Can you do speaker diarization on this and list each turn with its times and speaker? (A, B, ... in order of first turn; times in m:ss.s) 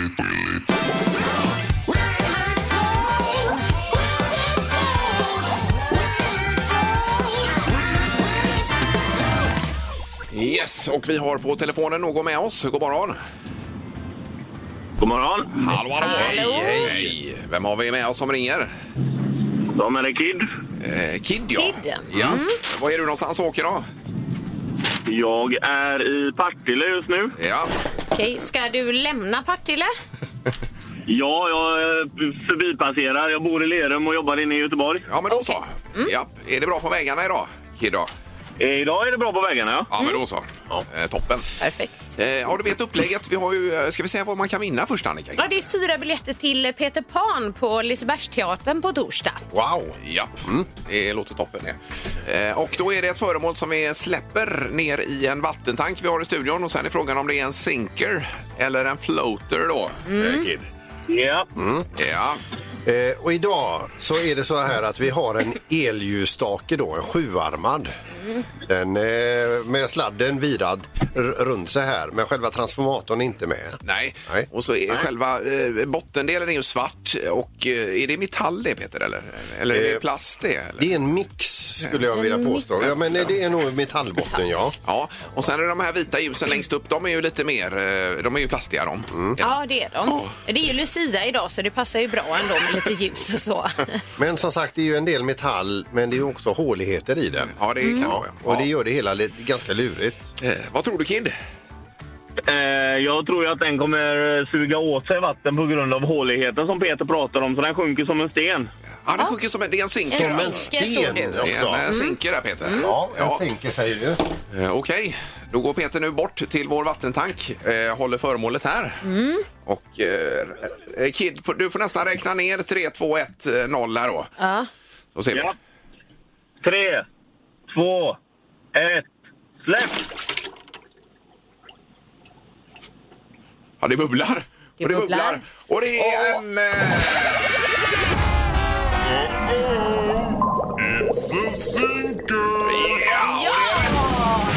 0:10.3-0:13.2 A
0:15.0-0:15.5 B
0:15.5-0:18.7 A
0:16.0-0:16.9 C
0:16.0-0:17.1 D
0:19.7-0:20.4 B
0:20.8-0:23.8 A
0:21.5-0:22.6 C
0:25.1-0:27.3 B
0:27.4-0:27.7 A
0:28.1-0:29.9 C
0:31.1-0:35.0 B
0:35.1-0:38.1 A
0:35.3-0:36.1 C
0:38.6-0:39.9 B
0:39.9-0:41.4 A
0:41.6-0:42.0 C
0:42.2-0:45.6 A
0:45.4-0:49.4 C
0:49.5-0:50.7 D
0:50.0-1:00.4 A
1:00.1-1:00.5 C
1:00.6-1:01.5 B
1:01.6-1:01.9 D
1:02.0-1:02.4 A
1:02.8-1:07.9 D
1:08.7-1:14.4 D
1:13.8-1:20.9 A
1:19.7-1:20.0 D
1:20.8-1:24.8 D
1:22.1-1:22.6 C
1:22.8-1:23.4 A
1:24.8-1:29.1 A
1:29.1-1:29.4 D
1:29.4-1:34.0 C
1:34.2-1:40.2 D
1:37.4-1:38.7 A
1:37.8-1:38.1 C
1:40.4-1:41.3 A
1:42.4-1:48.7 B
1:49.0-1:50.6 A
1:50.1-1:52.9 C
1:50.1-1:51.9 D
1:51.4-1:53.4 A
1:52.8-1:54.2 D
1:54.5-1:59.0 A
1:59.0-1:59.4 C
1:59.6-2:04.3 A
2:04.4-2:04.7 C
2:05.1-2:05.5 A
2:06.6-2:07.0 B
2:07.7-2:08.2 B
2:08.7-2:09.1 B
2:09.6-2:10.0 B
2:13.8-2:17.5 A
2:14.8-2:15.4 C
2:22.6-2:24.3 A
2:23.2-2:24.3 C